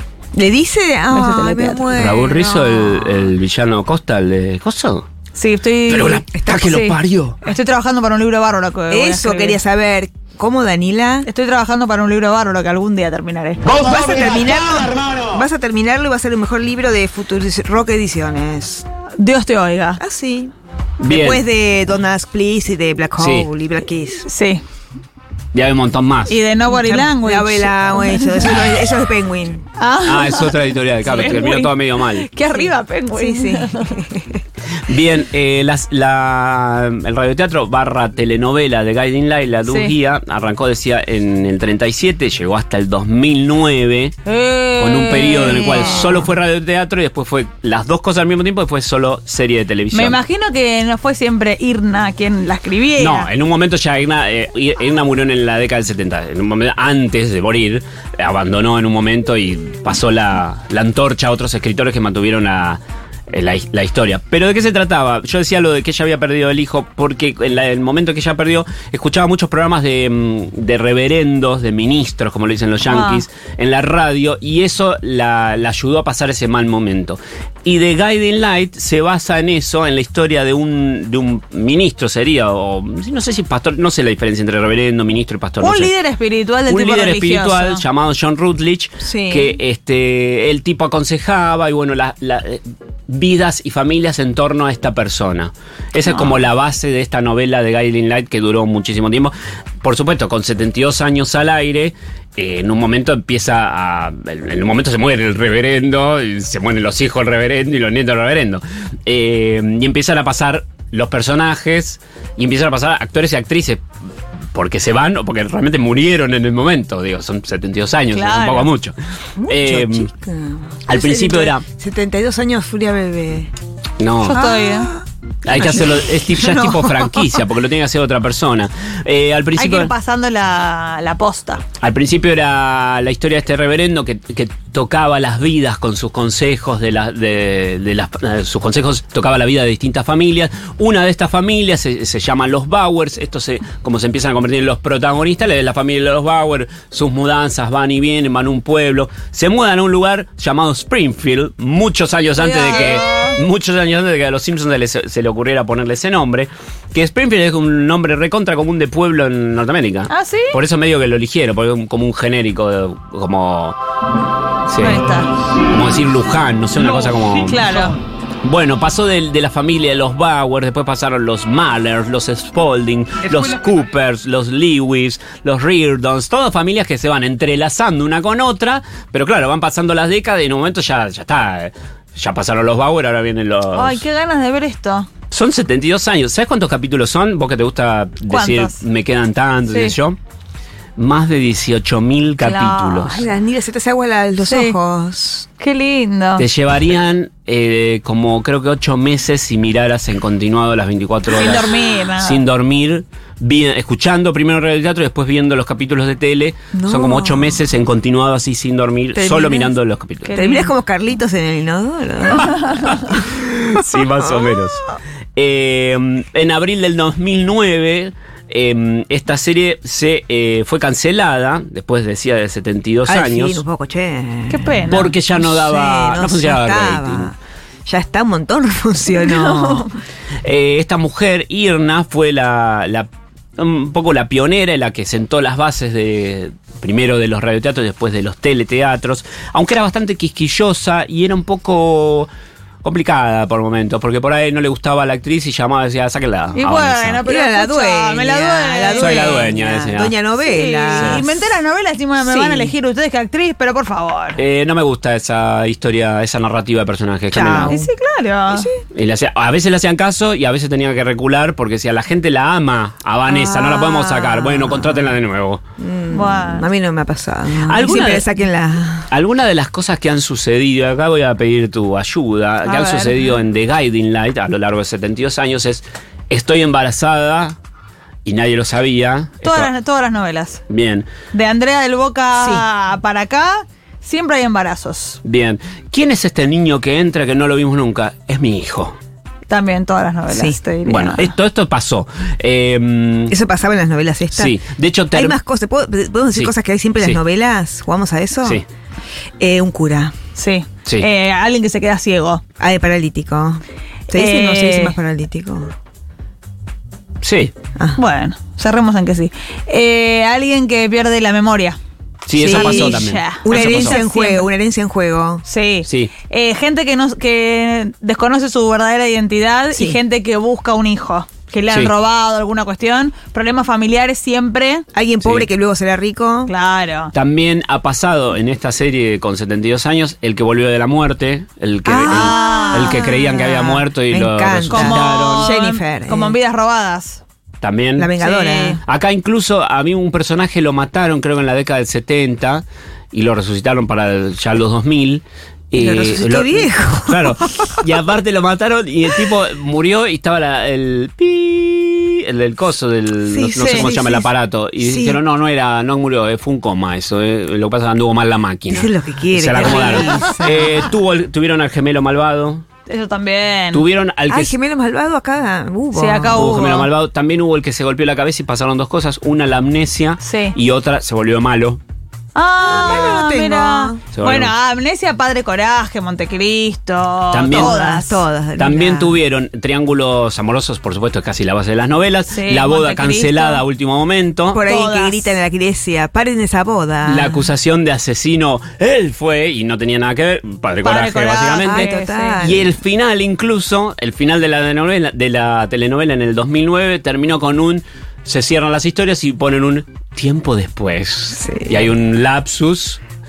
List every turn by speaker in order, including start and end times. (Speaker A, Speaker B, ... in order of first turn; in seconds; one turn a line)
Speaker A: 0.3-3.3
Speaker B: 1.1-1.9
Speaker C: 1.9-5.1
Speaker B: 5.3-9.6
Speaker C: 5.9-7.4
Speaker A: 6.4-6.6
Speaker A: 8.9-11.3
Speaker B: 11.2-13.6
Speaker A: 13.7-18.9
Speaker B: 19.2-20.0
Speaker A: 20.0-20.5
Speaker C: 21.0-21.4
Speaker A: 21.0-24.3
Speaker C: 23.2-23.5
Speaker B: 24.2-24.6
Speaker C: 25.5-26.4
Speaker B: 26.3-28.4
Speaker A: 26.7-29.7
Speaker B: 29.8-33.9
Speaker C: 30.0-32.3
Speaker A: 32.5-34.4
Speaker C: 34.9-44.1
Speaker B: 39.6-39.9
Speaker B: 44.2-46.2
Speaker C: 44.8-50.2
Speaker B: 49.9-53.3
Speaker C: 53.0-85.9
Speaker B: 72.8-73.2
Speaker B: 85.6-87.8
Speaker C: 86.7-113.8
Speaker A: 89.0-89.6
Speaker C: 114.5-118.9
Speaker B: 118.1-118.7
Speaker A: 119.4-123.5
Speaker C: 119.5-120.1
Speaker C: 120.9-121.6
Speaker C: 124.0-124.4
Speaker B: 124.2-124.9
Speaker A: 124.3-125.0
Speaker C: 125.4-129.9
Speaker A: 125.5-127.1
Speaker B: 129.6-131.6
Speaker C: 131.8-163.8
Speaker B: 152.3-153.4
Speaker B: 160.1-160.6
Speaker C: 164.7-165.0
Speaker B: 164.8-165.3
Speaker C: 165.7-167.8
Speaker B: 167.5-168.0
Speaker C: 168.4-184.0
Speaker B: 183.7-185.1
Speaker C: 185.3-190.2
Speaker B: 188.3-188.8
Speaker B: 189.7-189.9
Speaker C: 191.0-193.3
Speaker B: 192.4-193.2
Speaker A: 193.2-195.5
Speaker B: 194.4-194.8
Speaker B: 195.6-196.5
Speaker C: 196.4-210.4
Speaker B: 201.3-202.4
Speaker A: 206.7-207.6
Speaker A: 209.4-209.7
Speaker B: 210.2-210.7
Speaker A: 210.3-213.4
Speaker C: 213.7-214.8
Speaker C: 215.3-223.6
Speaker A: 223.1-229.9
Speaker B: 224.5-225.1
Speaker C: 224.9-227.3
Speaker B: 229.2-229.9
Speaker C: 230.4-242.3
Speaker C: 242.8-247.2
Speaker B: 246.5-249.5
Speaker A: 247.2-251.4
Speaker C: 249.0-250.1
Speaker B: 250.4-254.4
Speaker C: 250.9-251.2
Speaker A: 252.2-252.7
Speaker C: 254.4-257.8
Speaker A: 257.3-257.9
Speaker B: 257.7-258.7
Speaker C: 258.9-265.6
Speaker A: 263.3-265.2
Speaker A: 265.8-269.1
Speaker B: 266.1-266.7
Speaker C: 267.6-268.3
Speaker C: 269.1-277.6
Speaker B: 272.6-273.3
Speaker C: 278.2-279.7
Speaker B: 279.4-280.6
Speaker C: 280.7-281.1
Speaker B: 281.3-285.2
Speaker A: 282.4-282.6
Speaker C: 285.2-288.9
Speaker B: 289.5-291.3
Speaker A: 290.3-290.6
Speaker C: 290.8-293.4
Speaker A: 293.3-294.6
Speaker C: 294.3-295.4
Speaker A: 295.1-298.6
Speaker C: 296.3-297.2
Speaker A: 299.4-300.1
Speaker B: 300.4-302.4
Speaker A: 302.6-305.7
Speaker B: 304.1-304.9
Speaker C: 307.2-307.5
Speaker B: 307.9-311.8
Speaker C: 312.2-314.0
Speaker A: 312.4-315.4
Speaker B: 312.4-314.5
Speaker B: 315.4-324.8
Speaker C: 315.9-316.1
Speaker A: 319.7-320.0
Speaker A: 324.9-326.5
Speaker C: 325.2-325.5
Speaker B: 326.4-327.1
Speaker C: 327.1-335.5
Speaker A: 331.8-336.4
Speaker B: 332.1-333.1
Speaker B: 334.7-337.2
Speaker C: 337.6-338.1
Speaker A: 338.0-338.8
Speaker B: 338.2-338.8
Speaker C: 338.8-362.6
Speaker A: 345.8-347.8
Speaker A: 353.2-354.3
Speaker B: 353.5-353.9
Speaker A: 354.8-355.2
Speaker A: 358.7-360.9
Speaker B: 359.6-360.1
Speaker B: 362.9-363.8
Speaker C: 363.7-364.5
Speaker A: 364.3-366.5
Speaker B: 365.9-366.9
Speaker C: 366.4-371.8
Speaker B: 370.2-370.6
Speaker B: 372.3-378.2
Speaker A: 372.6-374.0
Speaker C: 372.8-373.1
Speaker C: 374.1-374.5
Speaker C: 377.3-377.8
Speaker A: 377.5-379.2
Speaker C: 378.6-384.6
Speaker B: 382.3-383.6
Speaker A: 384.5-387.5
Speaker B: 384.6-385.3
Speaker C: 387.0-403.0
Speaker B: 390.8-392.4
Speaker A: 391.6-392.7
Speaker A: 401.4-401.9